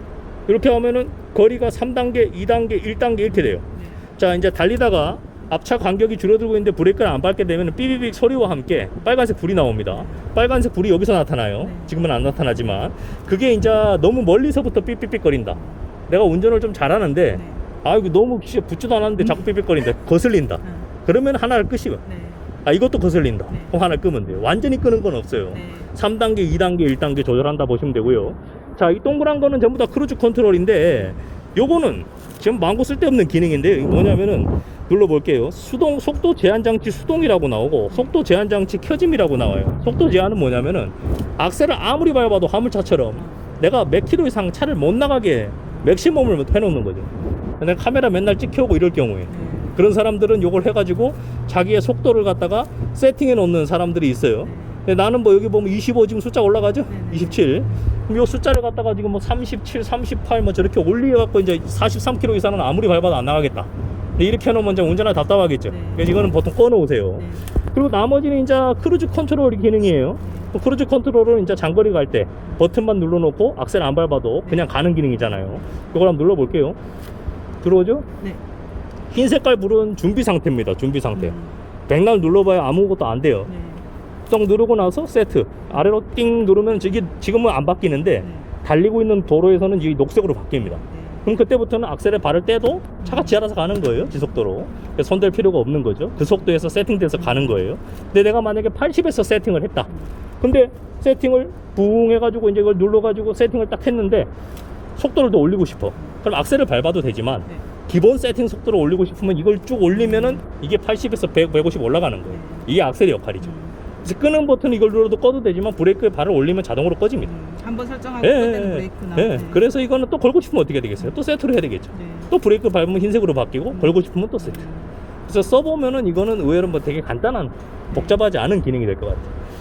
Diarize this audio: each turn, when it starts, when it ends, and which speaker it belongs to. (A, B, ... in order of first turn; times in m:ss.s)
0:00.5-0:03.6 A
0:03.7-0:04.0 B
0:04.2-0:22.0 A
0:09.9-0:10.2 B
0:11.6-0:12.0 B
0:15.5-0:15.8 B
0:17.3-0:17.6 B
0:19.2-0:19.4 B
0:20.6-0:20.9 B
0:22.0-0:22.5 B
0:22.6-1:16.8 A
0:23.5-0:23.8 B
0:25.5-0:25.9 B
0:37.9-0:38.2 B
0:43.2-0:43.5 B
0:49.3-0:49.8 B
0:54.4-0:54.8 B
0:56.9-0:57.8 B
1:05.7-1:06.1 B
1:07.2-1:07.5 B
1:10.2-1:10.6 B
1:17.6-1:18.1 A
1:19.1-1:21.4 A
1:21.1-1:21.6 B
1:21.9-1:23.5 A
1:23.5-1:23.8 B
1:24.3-1:39.9 A
1:28.2-1:28.5 B
1:30.6-1:31.3 B
1:33.0-1:33.4 B
1:34.0-1:34.3 B
1:37.1-1:37.6 B
1:39.9-1:40.1 B
1:40.4-1:44.3 A
1:45.0-1:53.5 A
1:49.9-1:50.4 B
1:52.3-1:52.7 B
1:53.4-1:53.8 B
1:54.0-1:57.3 A
1:57.2-1:59.7 B
1:58.2-2:04.6 A
2:01.9-2:02.3 B
2:03.7-2:04.9 B
2:05.3-2:09.3 A
2:07.9-2:08.2 B